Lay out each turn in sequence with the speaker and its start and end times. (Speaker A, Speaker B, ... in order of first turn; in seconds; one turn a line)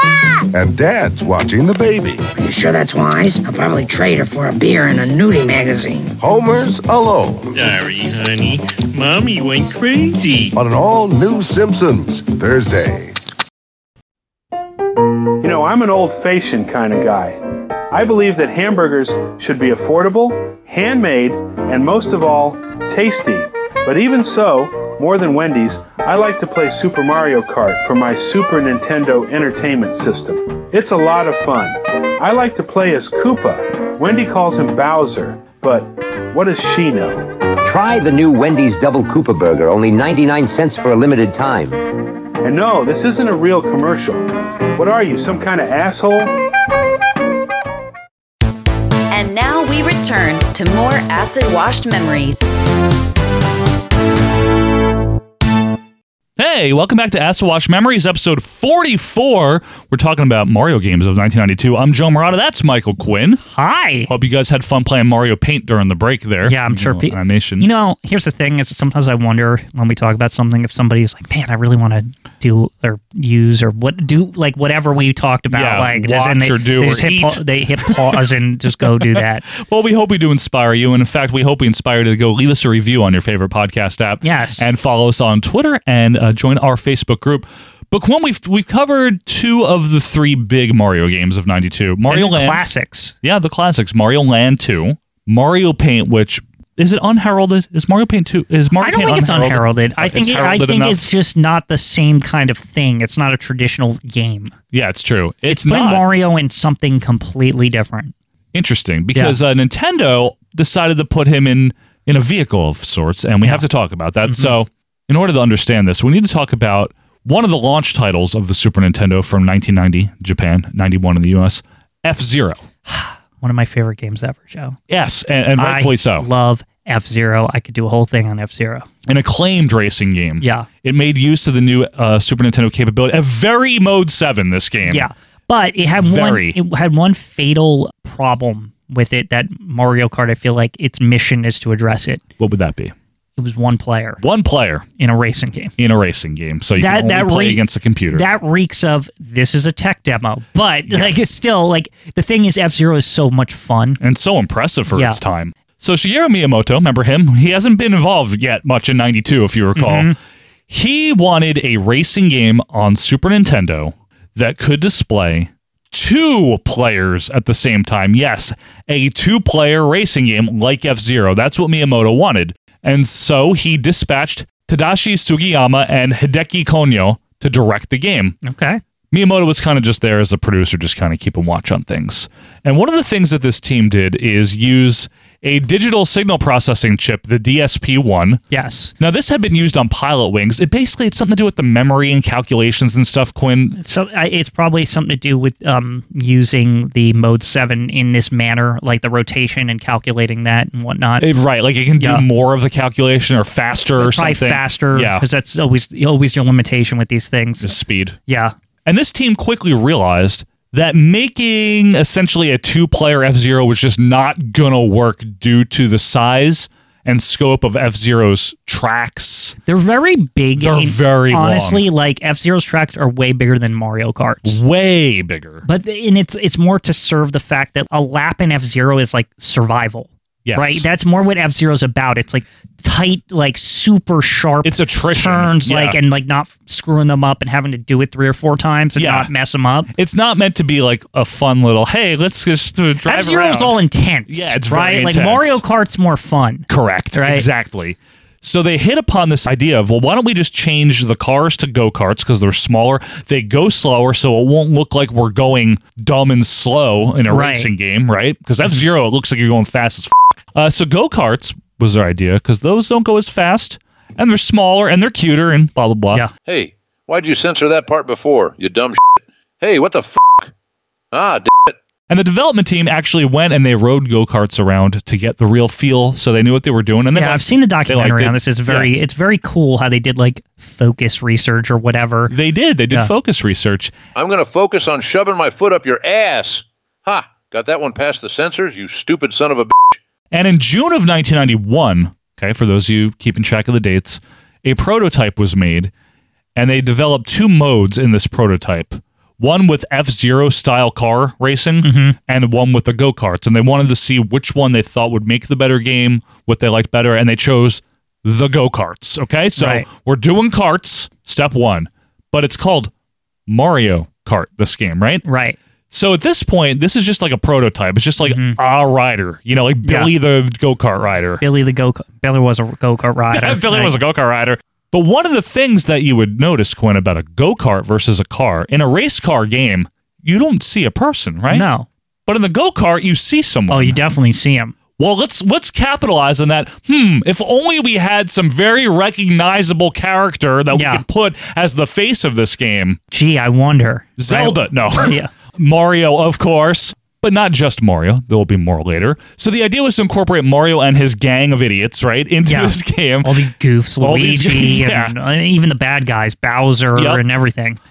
Speaker A: 0.5-2.3
Speaker A: 6.2-7.6
Speaker B: 7.5-10.5
Speaker A: 10.5-13.1
Speaker C: 15.4-17.4
Speaker C: 17.9-37.2
Speaker D: 37.7-41.7
Speaker C: 42.4-46.3
Speaker E: 49.1-52.4
Speaker F: 56.4-63.4
Speaker G: 63.5-64.1
Speaker F: 64.1-67.7
Speaker G: 66.4-79.5
Speaker F: 75.5-78.2
Speaker F: 78.8-92.6
Speaker G: 84.2-84.6
Speaker G: 92.1-93.1
Speaker F: 93.2-101.1
Speaker G: 98.8-104.5
Speaker F: 104.7-106.0
Speaker G: 105.5-108.1
Speaker F: 108.5-122.6
Speaker G: 114.2-114.5
Speaker G: 122.9-124.8
Speaker F: 124.9-126.3
Speaker G: 125.6-128.9
Speaker F: 129.1-135.1
Speaker G: 130.4-130.7
Speaker G: 134.9-142.2
Speaker F: 136.0-136.6
Speaker F: 142.4-142.9
Speaker G: 143.4-144.2
Speaker F: 144.2-144.8
Speaker G: 145.0-145.7
Speaker F: 145.8-148.3
Speaker G: 146.8-147.6
Speaker G: 148.1-154.0
Speaker F: 150.9-151.1
Speaker F: 154.0-160.1
Speaker G: 154.9-155.2
Speaker G: 159.8-160.1
Speaker F: 160.7-178.4
Speaker G: 178.4-178.8
Speaker F: 179.1-188.4
Speaker G: 188.5-188.9
Speaker F: 189.0-193.8
Speaker G: 193.7-201.3
Speaker F: 201.2-205.2
Speaker G: 202.0-202.2
Speaker G: 203.9-207.7
Speaker F: 207.6-208.2
Speaker G: 208.3-208.5
Speaker F: 208.8-219.6
Speaker G: 219.7-224.6
Speaker F: 220.6-221.8
Speaker F: 224.4-225.6
Speaker G: 225.6-239.9
Speaker F: 230.4-230.9
Speaker F: 234.6-236.0
Speaker F: 238.9-239.3
Speaker F: 239.9-245.6
Speaker G: 243.0-247.5
Speaker F: 246.7-266.2
Speaker G: 257.3-257.7
Speaker H: 266.5-270.5
Speaker H: 271.1-271.8
Speaker F: 272.1-278.9
Speaker G: 277.1-282.3
Speaker F: 282.3-283.9
Speaker H: 284.1-290.0
Speaker F: 290.3-295.9
Speaker F: 296.6-312.9
Speaker G: 301.8-302.1
Speaker G: 309.6-309.9
Speaker F: 313.5-315.2
Speaker G: 315.2-315.6
Speaker F: 315.9-321.4
Speaker G: 318.2-318.6
Speaker G: 319.8-320.1
Speaker G: 321.4-324.0
Speaker F: 323.3-331.7
Speaker G: 331.5-331.9
Speaker F: 332.2-334.0
Speaker G: 333.7-334.7
Speaker F: 335.0-343.0
Speaker G: 340.7-341.0
Speaker G: 343.1-345.3
Speaker F: 344.2-353.4
Speaker G: 352.5-357.8
Speaker F: 354.0-355.1
Speaker F: 356.9-357.2